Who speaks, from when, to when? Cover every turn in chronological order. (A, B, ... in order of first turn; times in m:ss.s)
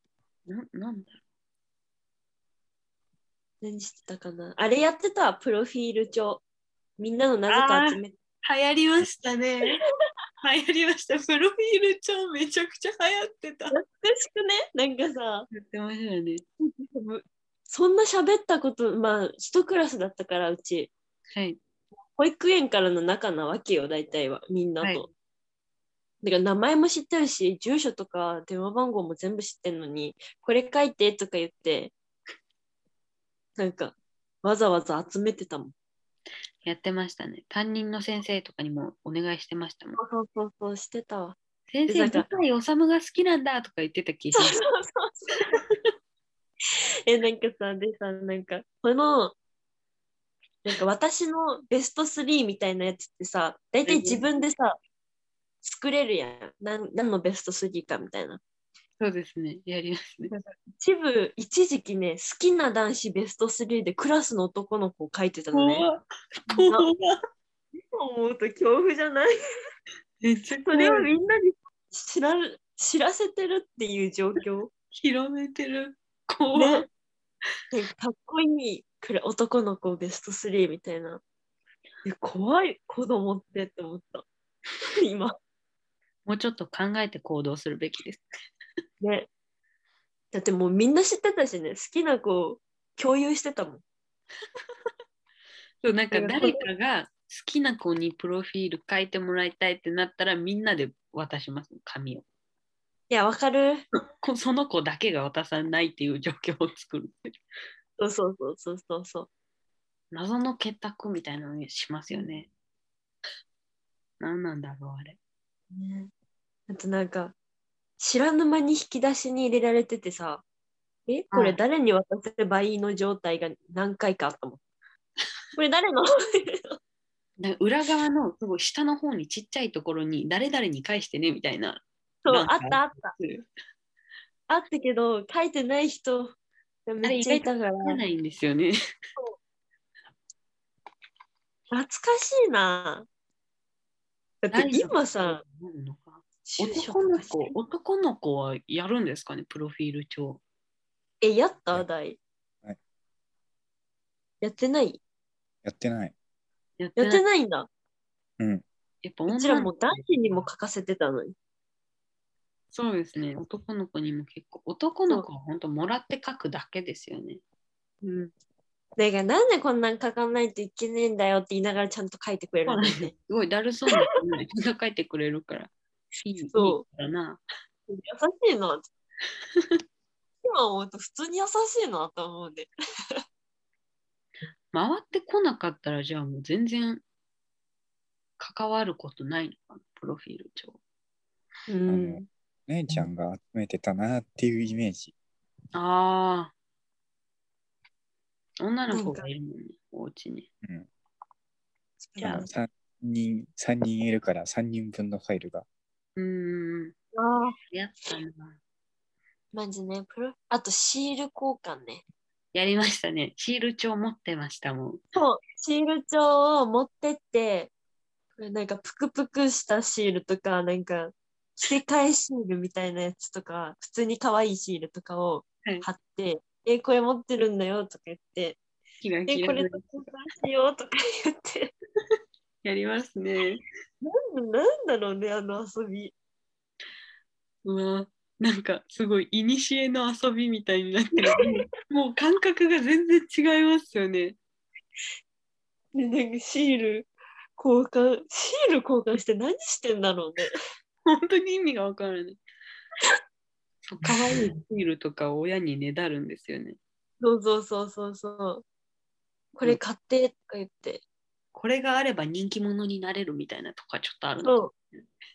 0:00.5-0:01.2 A
0:03.6-0:06.4 B
0:07.0-0:08.1 B
0:07.5-0:09.8 A
0:10.4-0:13.8 A
0:13.7-0:15.5 B
0:15.5-0:16.4 A
0:16.6-0:20.9 B
0:22.2-0:25.1 B
0:24.8-0:25.1 A
0:26.2-0:31.9 B
0:33.6-0:35.7 B
0:36.6-0:40.0 A
0:40.0-0:42.3 B
0:41.7-0:44.6 A
0:44.3-0:45.6 B
0:47.0-0:49.3 B
0:50.6-0:54.8 B
0:53.8-0:54.2 A
0:55.6-0:58.4 B
0:59.0-1:00.3 A
1:00.3-1:05.9 B
1:05.5-1:07.2 A
1:06.5-1:06.9 B
1:07.7-1:09.3 B
1:10.2-1:11.1 A
1:10.6-1:14.7 B
1:14.9-1:16.8 A
1:16.5-1:16.9 B
1:17.7-1:21.2 B
1:22.0-1:24.2 B
1:24.8-1:25.3 B
1:26.2-1:28.2 A
1:29.0-1:29.3 B
1:30.3-1:33.8 B
1:35.8-1:42.2 A
1:36.1-1:36.6 B
1:43.1-1:43.8 B
1:44.2-1:47.3 A
1:48.0-1:49.3 B
1:50.1-1:52.5 A
1:52.1-1:52.4 B
1:54.2-1:55.2 A
1:55.7-1:56.1 B
1:56.7-1:57.4 B
1:58.0-2:00.4 B
2:01.1-2:04.6 B
2:01.3-2:01.6 A
2:05.6-2:06.8 B
2:07.4-2:13.4 A
2:12.2-2:13.1 B
2:14.5-2:16.3 B
2:16.9-2:18.0 B
2:17.0-2:18.8 A
2:21.7-2:23.0 B
2:24.4-2:25.4 B
2:24.5-2:30.4 A
2:26.4-2:27.5 B
2:31.2-2:32.2 B
2:34.4-2:35.0 B
2:35.6-2:36.1 C
2:36.8-2:37.2 A
2:37.0-2:37.7 B
2:38.4-2:38.6 C
2:39.0-2:40.0 A
2:39.3-2:41.3 B
2:42.7-2:47.4 A
2:48.0-2:48.3 B
2:49.0-2:53.1 B
2:52.6-2:55.7 A
2:56.2-2:57.4 A
2:56.5-2:56.8 B
2:57.9-2:58.9 B
3:00.4-3:03.2 B
3:04.7-3:07.0 A
3:08.4-3:10.8 A
3:11.7-3:12.3 B
3:11.9-3:15.1 C
3:15.7-3:16.5 A
3:18.6-3:20.5 A
3:18.9-3:19.2 B
3:20.6-3:20.9 C
3:22.0-3:22.5 B
3:22.2-3:25.6 C
3:26.2-3:26.9 A
3:27.1-3:27.6 B
3:27.7-3:28.6 A
3:29.5-3:32.0 B
3:32.5-3:35.0 A
3:35.1-3:37.7 B
3:38.4-3:48.6 B
3:49.0-3:50.1 A
3:49.3-3:51.7 B
3:52.6-3:53.6 A
3:54.0-3:56.1 B
3:57.6-4:04.4 A
4:01.2-4:01.6 B
4:05.9-4:10.5 B
4:11.0-4:12.4 A
4:13.8-4:16.8 A
4:14.1-4:14.4 B
4:17.2-4:18.6 B
4:19.5-4:21.0 B
4:21.5-4:24.6 A
4:24.4-4:24.7 B